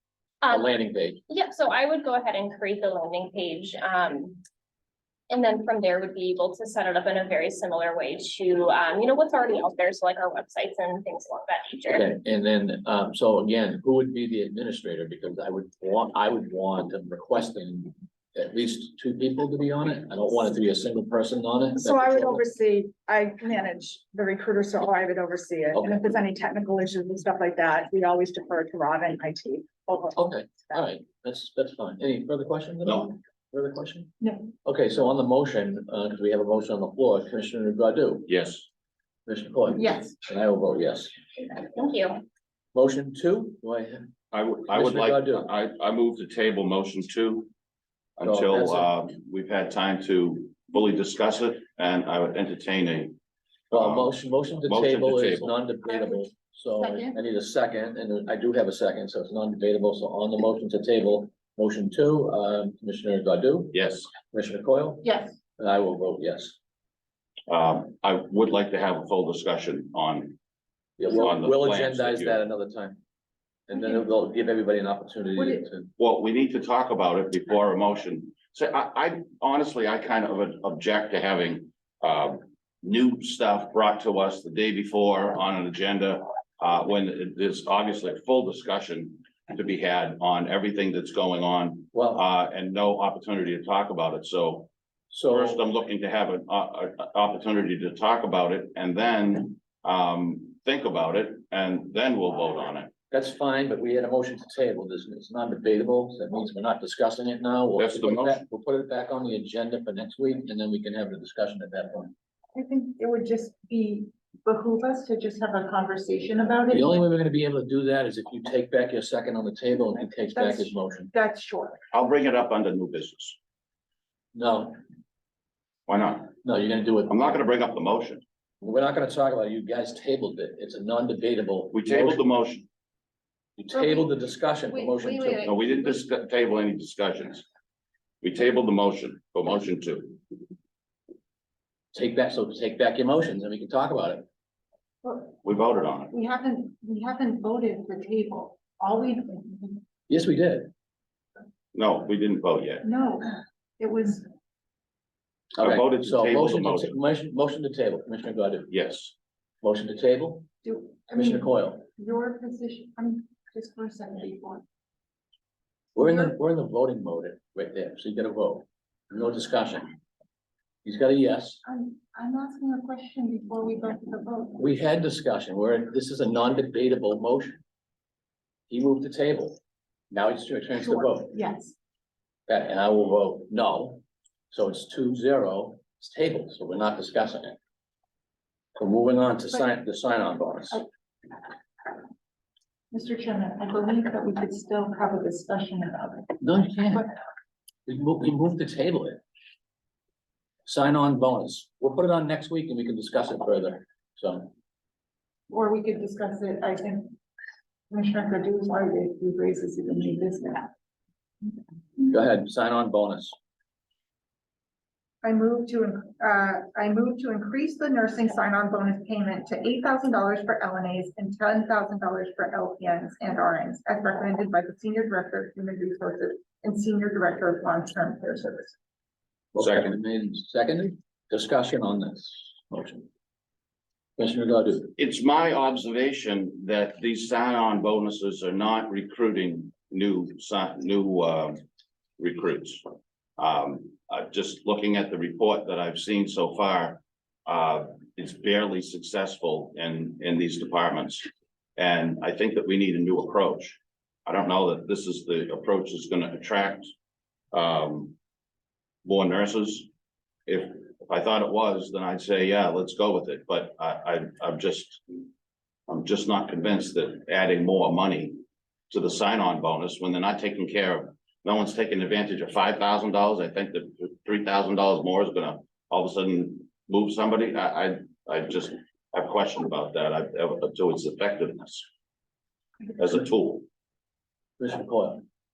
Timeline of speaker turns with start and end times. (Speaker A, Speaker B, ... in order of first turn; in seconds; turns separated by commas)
Speaker A: 0.4-0.7, Speaker B: 0.5-1.2, Speaker A: 1.3-4.4, Speaker A: 5.3-12.1, Speaker B: 11.9-22.4, Speaker C: 21.8-30.2, Speaker B: 30.1-34.1, Speaker D: 32.9-33.1, Speaker E: 34.2-34.5, Speaker B: 34.6-38.3, Speaker D: 38.3-38.7, Speaker B: 39.2-41.1, Speaker E: 39.8-40.1, Speaker A: 41.5-42.2, Speaker B: 42.7-44.0, Speaker D: 44.3-47.5, Speaker B: 44.7-45.5, Speaker D: 48.2-53.2, Speaker B: 48.2-48.9, Speaker D: 53.7-55.6, Speaker B: 53.7-66.6, Speaker E: 55.9-57.2, Speaker D: 63.7-64.2, Speaker E: 65.0-65.4, Speaker D: 67.5-70.4, Speaker B: 71.0-73.0, Speaker D: 71.1-72.4, Speaker B: 73.7-75.9, Speaker E: 75.4-75.6, Speaker D: 76.0-94.7, Speaker B: 91.9-92.2, Speaker B: 95.1-95.6, Speaker D: 95.2-102.9, Speaker B: 103.1-112.1, Speaker D: 107.8-108.4, Speaker E: 112.5-117.0, Speaker B: 116.7-121.1, Speaker E: 120.3-121.8, Speaker D: 121.9-123.4, Speaker B: 124.3-124.8, Speaker D: 125.9-126.4, Speaker B: 126.4-127.4, Speaker D: 127.1-128.2, Speaker B: 128.6-132.2, Speaker D: 131.7-132.7, Speaker B: 133.6-135.6, Speaker E: 133.7-134.0, Speaker E: 134.7-136.0, Speaker D: 135.4-137.4, Speaker D: 138.2-140.2, Speaker B: 141.9-144.2, Speaker E: 145.0-145.4, Speaker D: 145.4-146.1, Speaker E: 146.1-149.8, Speaker B: 150.1-150.7, Speaker D: 151.7-152.8, Speaker E: 152.8-154.3, Speaker D: 155.6-157.0, Speaker B: 155.6-158.7, Speaker D: 158.7-159.1, Speaker B: 159.6-160.5, Speaker E: 160.6-164.6, Speaker B: 161.2-161.9, Speaker B: 165.9-169.9, Speaker E: 166.0-166.3, Speaker B: 170.8-171.6, Speaker E: 171.7-174.7, Speaker B: 174.6-177.6, Speaker B: 178.7-179.6, Speaker B: 180.1-181.3, Speaker E: 180.8-181.8, Speaker B: 182.5-187.6, Speaker B: 188.8-190.8, Speaker E: 192.9-197.1, Speaker B: 196.4-197.1, Speaker B: 197.9-199.2, Speaker B: 200.7-204.5, Speaker E: 205.5-207.2, Speaker E: 207.9-210.7, Speaker B: 212.1-213.3, Speaker E: 215.2-228.8, Speaker B: 229.5-233.1, Speaker D: 229.6-229.9, Speaker B: 234.2-234.9, Speaker D: 234.9-241.6, Speaker D: 242.2-242.8, Speaker D: 243.4-256.9, Speaker D: 257.5-258.1, Speaker D: 259.0-259.9, Speaker D: 260.5-265.0, Speaker D: 265.9-281.9, Speaker D: 283.0-283.6, Speaker B: 284.6-285.2